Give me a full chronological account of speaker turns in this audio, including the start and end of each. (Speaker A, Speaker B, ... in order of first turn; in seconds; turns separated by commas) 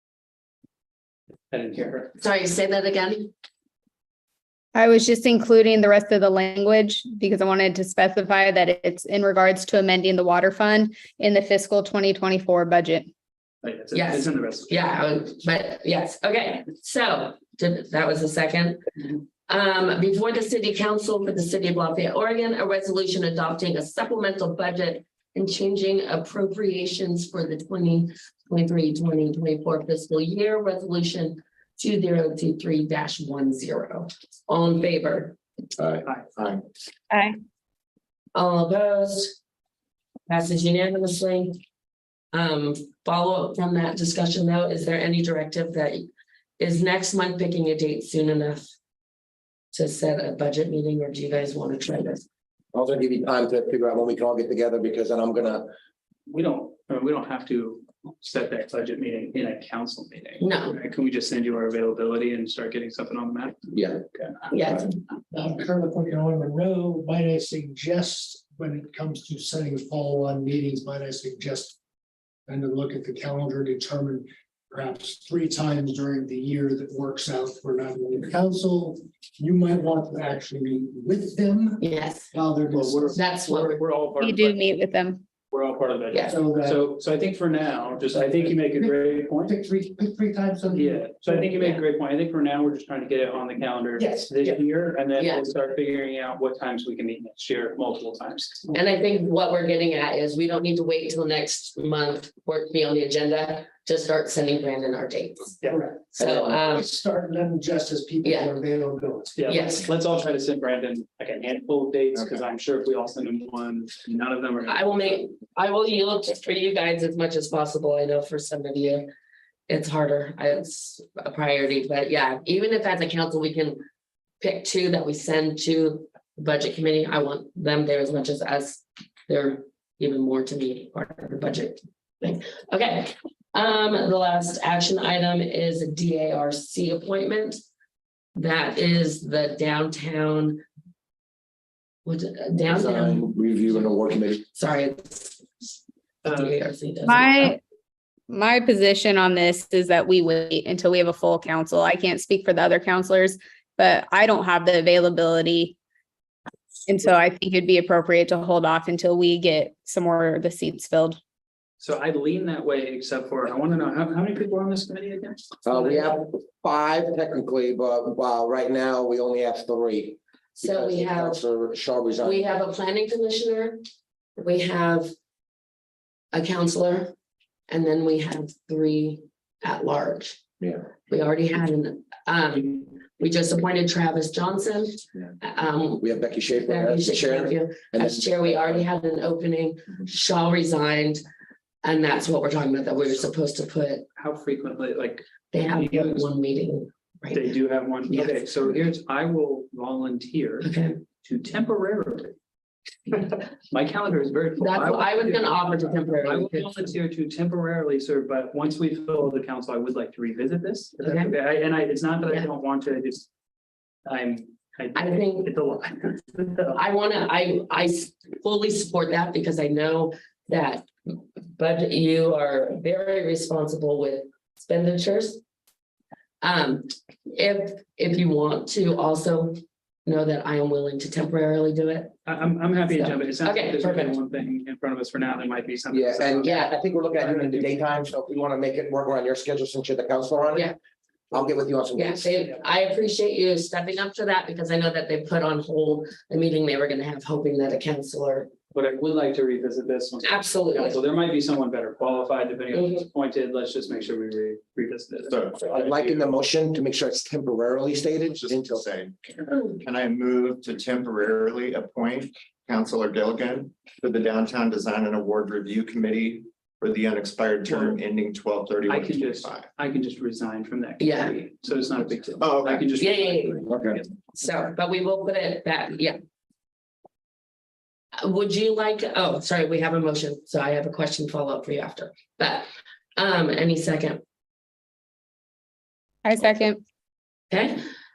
Speaker A: 1.5-2.1, Speaker B: 2.2-3.3, Speaker C: 4.7-13.1, Speaker A: 13.6-14.8, Speaker B: 13.9-18.8, Speaker B: 19.5-35.4, Speaker D: 35.8-36.6, Speaker B: 38.3-39.4, Speaker B: 40.3-41.6, Speaker B: 42.3-46.1, Speaker B: 46.6-48.7, Speaker B: 49.7-52.2, Speaker E: 52.7-55.7, Speaker A: 56.3-63.6, Speaker B: 60.4-60.8, Speaker E: 63.7-64.0, Speaker B: 64.5-64.9, Speaker F: 65.3-71.8, Speaker F: 72.5-83.2, Speaker B: 81.8-82.3, Speaker A: 82.7-84.6, Speaker B: 83.1-83.8, Speaker C: 84.2-85.2, Speaker A: 85.5-89.5, Speaker F: 86.3-86.8, Speaker F: 88.2-91.5, Speaker A: 90.7-98.7, Speaker F: 94.0-94.3, Speaker B: 95.1-95.4, Speaker B: 98.7-105.6, Speaker F: 105.7-109.6, Speaker B: 106.1-106.9, Speaker B: 108.2-108.5, Speaker A: 109.3-115.2, Speaker B: 109.5-109.9, Speaker B: 114.7-119.1, Speaker B: 119.7-123.8, Speaker B: 124.4-137.6, Speaker B: 138.3-140.6, Speaker B: 142.0-145.7, Speaker E: 142.7-144.4, Speaker B: 146.2-147.5, Speaker C: 147.1-147.6, Speaker C: 148.3-155.8, Speaker C: 156.8-161.2, Speaker A: 161.8-166.1, Speaker E: 165.7-172.5, Speaker B: 170.6-171.4, Speaker B: 172.2-173.8, Speaker B: 174.4-175.1, Speaker B: 176.3-177.1, Speaker B: 177.7-180.4, Speaker B: 181.1-186.1, Speaker E: 186.0-188.8, Speaker B: 186.6-191.2, Speaker B: 191.8-194.1, Speaker A: 194.2-196.3, Speaker B: 195.5-197.5, Speaker A: 197.3-200.7, Speaker B: 198.1-198.4, Speaker B: 200.6-201.0, Speaker A: 201.2-202.3, Speaker A: 203.1-213.3, Speaker B: 204.6-206.9, Speaker B: 211.0-211.3, Speaker A: 214.1-216.8, Speaker B: 214.9-215.5, Speaker B: 216.7-220.9, Speaker B: 221.6-225.4, Speaker B: 226.4-232.1, Speaker A: 232.2-237.8, Speaker B: 232.9-234.2, Speaker E: 235.9-240.7, Speaker B: 236.4-236.7, Speaker E: 241.3-242.3, Speaker B: 241.9-248.5, Speaker A: 248.7-256.3, Speaker B: 250.2-251.0, Speaker B: 252.7-253.0, Speaker D: 255.3-256.2, Speaker E: 255.6-258.9, Speaker D: 258.2-269.7, Speaker A: 268.9-274.1, Speaker B: 271.0-271.3, Speaker D: 272.4-272.9, Speaker B: 272.9-273.6, Speaker E: 273.7-274.0, Speaker B: 274.3-276.2, Speaker B: 278.2-284.2, Speaker C: 286.2-286.8, Speaker B: 287.5-287.8